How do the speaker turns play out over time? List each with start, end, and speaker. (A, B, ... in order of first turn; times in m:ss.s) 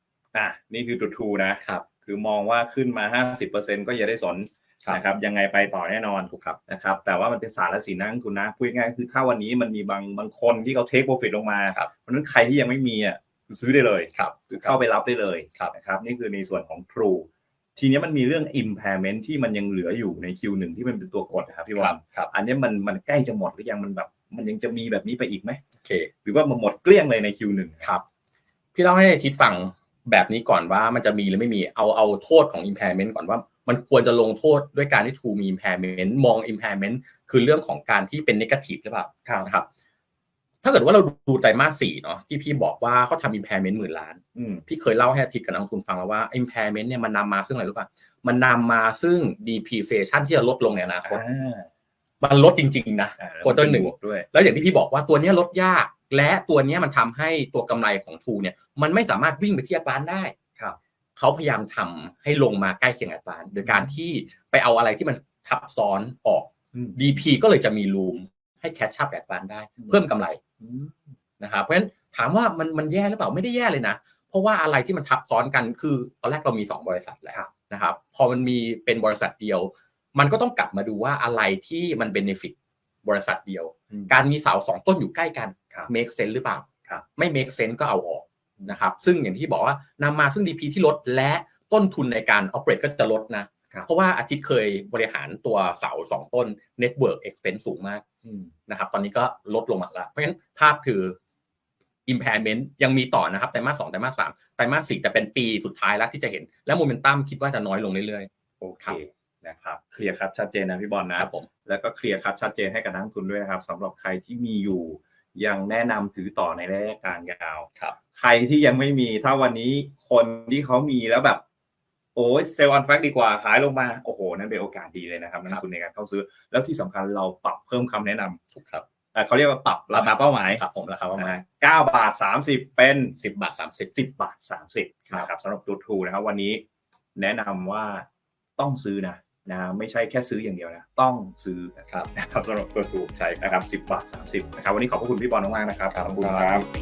0:00.3-0:25.6 A
0:06.3-0:06.6 B
0:14.1-0:14.8 B
0:21.7-0:22.3 B
0:25.8-0:26.1 B
0:26.2-0:27.9 A
0:28.7-0:39.7 B
0:40.6-0:51.2 B
0:44.4-0:44.6 A
0:51.0-0:51.7 A
0:52.2-1:00.3 B
0:53.2-0:54.3 A
1:01.2-1:10.4 B
1:03.6-1:04.0 A
1:06.7-1:07.2 A
1:09.8-1:10.0 A
1:10.6-1:11.1 A
1:11.4-1:38.0 B
1:38.2-1:38.5 A
1:38.7-1:41.2 B
1:42.0-1:48.3 B
1:48.6-2:01.4 A
1:51.1-1:51.5 B
2:02.2-2:08.4 A
2:08.5-2:08.8 B
2:09.1-2:10.6 A
2:09.9-2:11.4 B
2:11.2-2:13.2 A
2:13.2-2:14.0 B
2:13.9-2:16.6 A
2:17.2-2:26.7 A
2:22.9-2:23.5 B
2:25.9-2:26.6 B